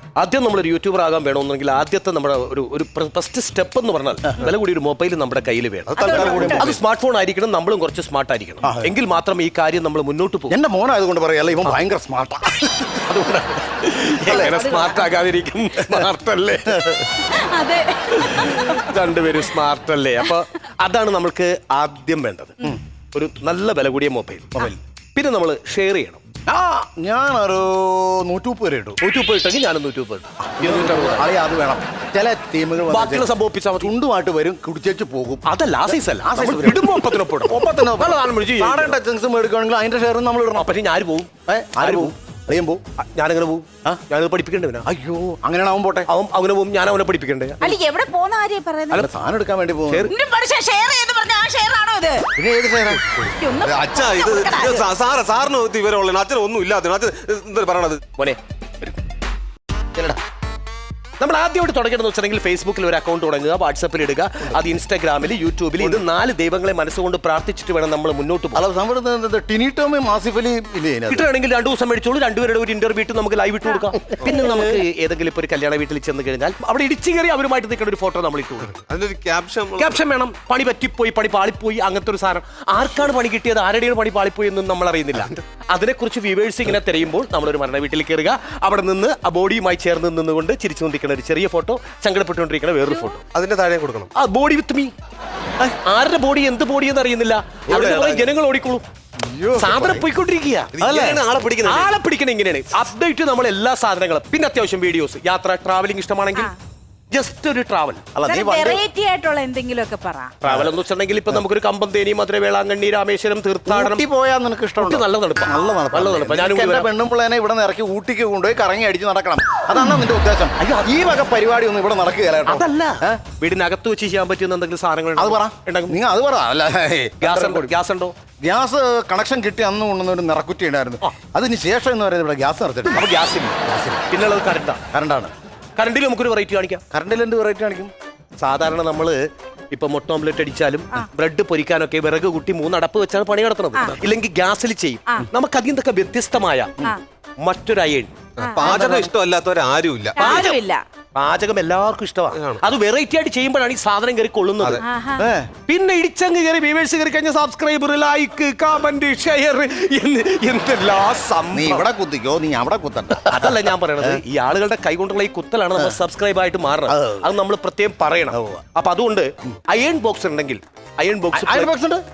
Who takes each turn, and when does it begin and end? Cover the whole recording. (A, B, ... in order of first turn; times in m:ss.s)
0:00.2-0:10.6 A
0:06.0-0:06.7 B
0:06.0-0:06.7 C
0:06.0-0:06.6 D
0:08.6-0:08.9 C
0:10.5-0:13.0 C
0:13.0-0:17.1 A
0:14.3-0:14.6 C
0:14.3-0:15.0 D
0:17.2-0:19.0 D
0:18.1-0:22.6 A
0:23.1-0:26.2 A
0:26.4-0:29.0 C
0:29.0-0:31.3 A
0:30.5-0:33.3 C
0:32.9-0:33.9 A
0:33.8-0:40.7 C
0:35.5-0:39.0 A
0:40.6-0:42.1 A
0:41.5-0:42.8 C
0:43.0-0:44.9 A
0:44.8-0:46.1 C
0:46.1-0:47.8 A
0:47.6-0:49.0 D
0:48.9-0:50.1 C
0:49.9-0:50.1 A
0:50.1-0:52.2 D
0:52.4-0:53.0 C
0:53.0-0:58.0 B
0:53.4-0:54.9 D
0:58.2-0:58.9 A
1:01.2-1:08.6 A
1:08.5-1:11.3 C
1:11.1-1:18.7 A
1:14.2-1:14.8 C
1:18.7-1:20.0 B
1:19.8-1:33.2 A
1:33.3-1:34.1 B
1:34.1-1:34.9 A
1:35.8-1:38.8 A
1:37.7-1:38.3 B
1:39.3-1:39.8 C
1:39.5-1:40.7 A
1:39.6-1:40.0 B
1:40.7-1:42.0 B
1:40.8-1:41.2 C
1:41.6-1:46.5 A
1:47.1-1:48.1 A
1:48.1-1:48.8 C
1:48.2-1:50.3 D
1:50.4-1:54.0 A
1:50.4-1:50.7 C
1:53.7-2:03.2 C
1:54.8-1:56.9 A
2:00.6-2:01.0 A
2:02.4-2:06.0 A
2:05.2-2:07.7 C
2:07.2-2:08.1 A
2:08.4-2:13.0 C
2:12.9-2:13.6 A
2:13.6-2:14.1 C
2:14.1-2:14.8 A
2:14.9-2:15.3 C
2:15.8-2:16.8 A
2:16.9-2:17.9 C
2:18.4-2:26.8 A
2:27.4-2:28.1 A
2:28.4-2:30.4 B
2:28.4-2:29.0 D
2:28.6-2:29.1 A
2:28.7-2:29.0 C
2:30.2-2:30.8 D
2:30.2-2:30.6 A
2:31.2-2:34.8 A
2:32.3-2:32.6 B
2:34.8-2:35.2 D
2:35.2-2:35.5 C
2:35.7-2:41.8 A
2:41.5-2:44.2 C
2:43.1-2:51.7 A
2:46.9-2:47.3 C
2:48.3-2:48.6 C
2:51.3-2:52.0 C